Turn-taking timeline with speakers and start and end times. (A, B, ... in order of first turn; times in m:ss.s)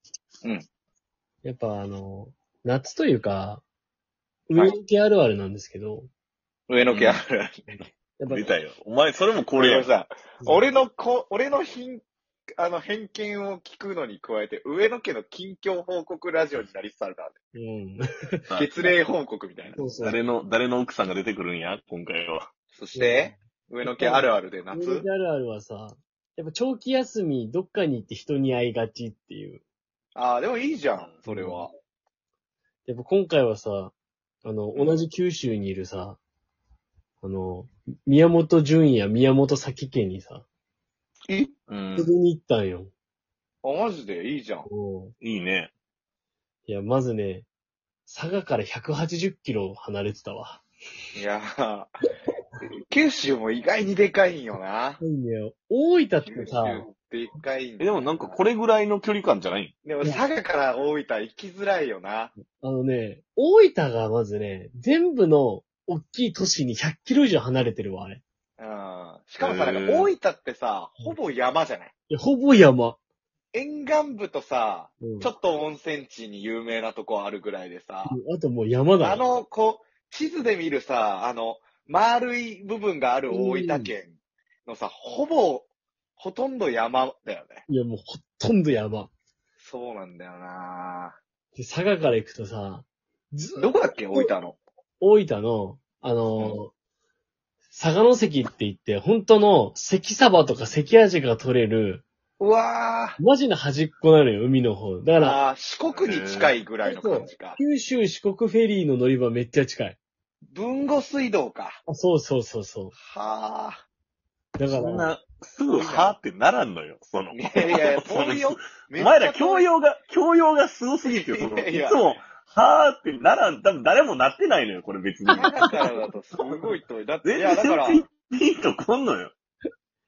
0:01.4-0:03.6 A
0:04.5-0:06.1 A
0:06.7-0:07.8 B
0:06.9-0:07.2 C
0:08.2-0:08.5 A
0:08.3-0:09.9 C
0:09.6-0:12.0 B
0:10.4-0:10.7 A
0:12.6-0:17.4 B
0:17.5-0:18.0 A
0:18.5-0:19.8 B
0:19.8-0:20.2 A
0:20.0-0:22.5 C
0:22.7-0:25.0 B
0:22.9-0:29.6 A
0:30.1-0:31.7 B
0:31.2-0:31.7 A
0:32.8-0:36.2 A
0:34.7-0:35.0 B
0:37.2-0:40.4 A
0:41.7-0:42.1 C
0:42.0-0:42.9 A
0:43.6-0:44.7 B
0:44.7-0:45.1 A
0:45.2-0:45.7 C
0:46.6-0:47.5 A
0:48.0-0:50.6 A
0:51.2-0:51.9 B
0:52.6-0:55.0 B
0:55.0-0:56.9 A
0:56.2-0:58.4 B
0:57.8-0:59.7 C
0:59.8-1:02.3 B
1:02.6-1:08.2 A
1:08.6-1:11.9 B
1:09.4-1:10.1 C
1:12.1-1:13.0 A
1:13.5-1:18.2 B
1:15.0-1:15.3 A
1:18.0-1:19.2 A
1:19.0-1:27.6 B
1:23.3-1:23.9 A
1:27.7-1:29.1 A
1:29.6-1:31.2 B
1:31.5-1:34.3 A
1:33.6-1:34.6 B
1:35.0-1:36.7 A
1:37.7-1:42.0 A
1:42.4-1:43.2 B
1:43.2-1:45.4 A
1:45.2-1:47.6 B
1:45.9-1:46.5 C
1:46.8-1:50.0 A
1:50.5-1:51.8 B
1:51.9-1:52.9 A
1:52.9-1:53.8 B
1:54.6-1:55.1 A
1:54.7-2:05.5 C
1:55.7-1:56.2 B
1:57.3-1:59.7 B
2:01.0-2:02.2 B
2:05.3-2:06.6 A
2:05.3-2:08.0 B
2:07.2-2:09.3 C